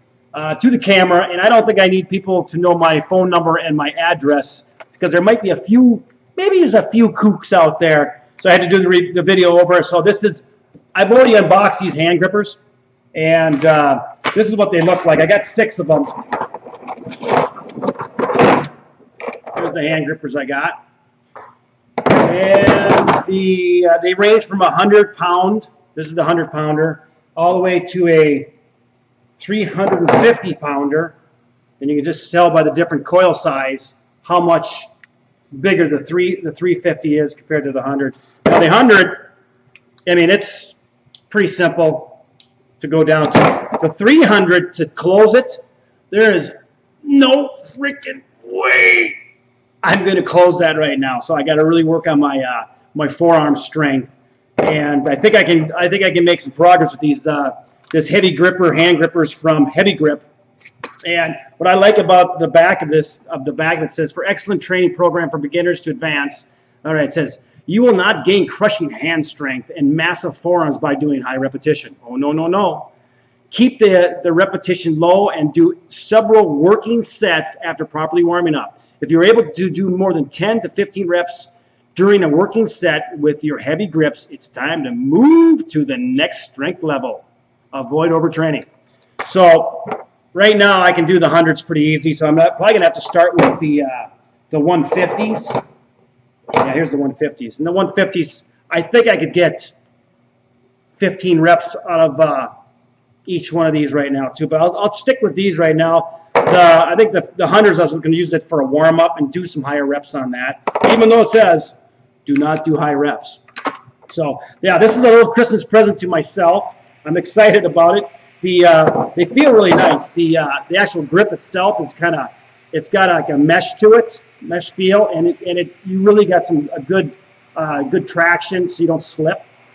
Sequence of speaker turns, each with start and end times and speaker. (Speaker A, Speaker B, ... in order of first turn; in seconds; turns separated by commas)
Speaker A: 0.3-10.4, Speaker A: 10.9-12.6, Speaker A: 13.1-16.3, Speaker A: 19.5-20.8, Speaker A: 22.1-28.5, Speaker A: 29.4-31.1, Speaker A: 31.8-34.9, Speaker A: 35.5-39.3, Speaker A: 40.1-40.8, Speaker A: 41.3-42.2, Speaker A: 42.8-49.1, Speaker A: 49.8-60.2, Speaker A: 61.0-72.9, Speaker A: 73.5-88.7, Speaker A: 89.2-95.6, Speaker A: 96.5-99.7, Speaker A: 101.0-102.5, Speaker A: 103.2-113.4, Speaker A: 114.1-129.4